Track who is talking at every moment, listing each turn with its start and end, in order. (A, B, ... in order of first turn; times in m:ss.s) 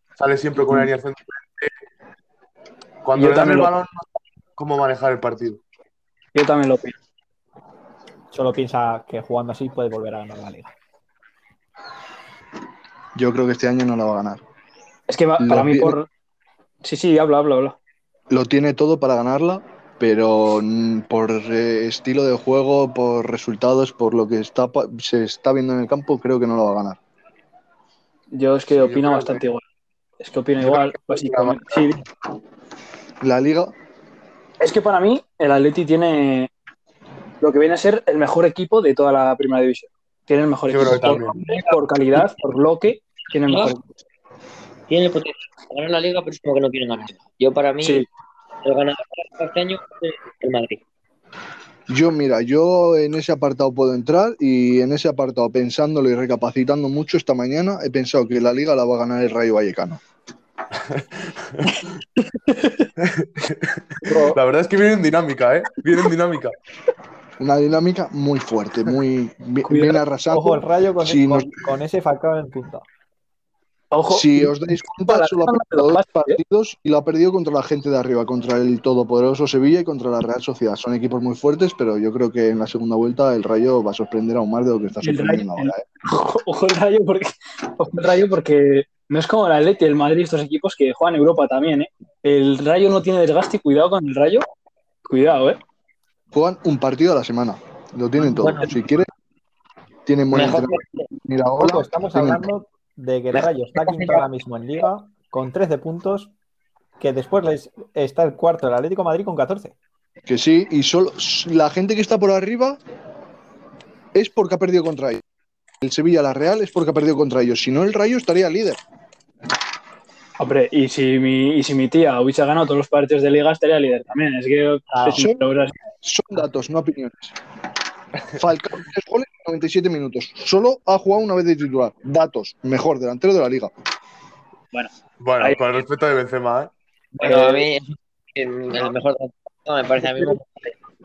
0:00.2-0:01.7 A
0:03.0-0:04.0 A
0:03.2-0:03.7 B
0:04.6-0:05.6 A
0:06.3-0:07.0 B
0:08.3-0:10.7 C
0:13.2-0:14.4 D
0:15.1-0:16.1 B
0:15.4-0:16.0 D
0:16.8-0:17.8 B
0:18.3-0:27.0 D
0:28.3-0:29.6 B
0:28.7-0:29.4 A
0:30.2-0:32.0 B
0:30.6-0:31.8 A
0:33.2-0:33.7 D
0:34.6-0:36.5 B
0:37.4-0:43.9 B
0:40.7-0:41.4 A
0:41.4-0:41.8 E
0:43.5-0:43.8 E
0:44.9-0:48.1 E
0:47.8-0:48.1 B
0:48.6-0:50.8 E
0:51.9-1:00.0 D
1:00.8-1:01.7 A
1:02.3-1:02.9 B
1:03.0-1:06.6 A
1:04.0-1:04.4 B
1:07.4-1:11.6 D
1:09.7-1:10.0 B
1:10.3-1:12.8 C
1:13.9-1:16.4 B
1:14.1-1:25.8 D
1:25.0-1:34.5 B
1:35.0-1:35.6 B
1:36.3-1:39.1 D
1:38.2-1:38.8 E
1:40.1-1:42.4 D
1:40.3-1:41.1 E
1:41.6-1:46.3 C
1:43.3-1:44.3 E
1:47.0-1:49.8 C
1:50.3-1:52.8 D
1:54.1-1:55.2 D
1:55.8-1:58.8 D
2:00.4-2:05.8 B
2:04.9-2:05.3 C
2:05.2-2:05.4 D
2:06.0-2:07.4 D
2:08.3-2:13.7 D
2:14.7-2:15.6 B
2:15.2-2:16.7 A
2:17.2-2:20.7 E
2:17.2-2:17.7 B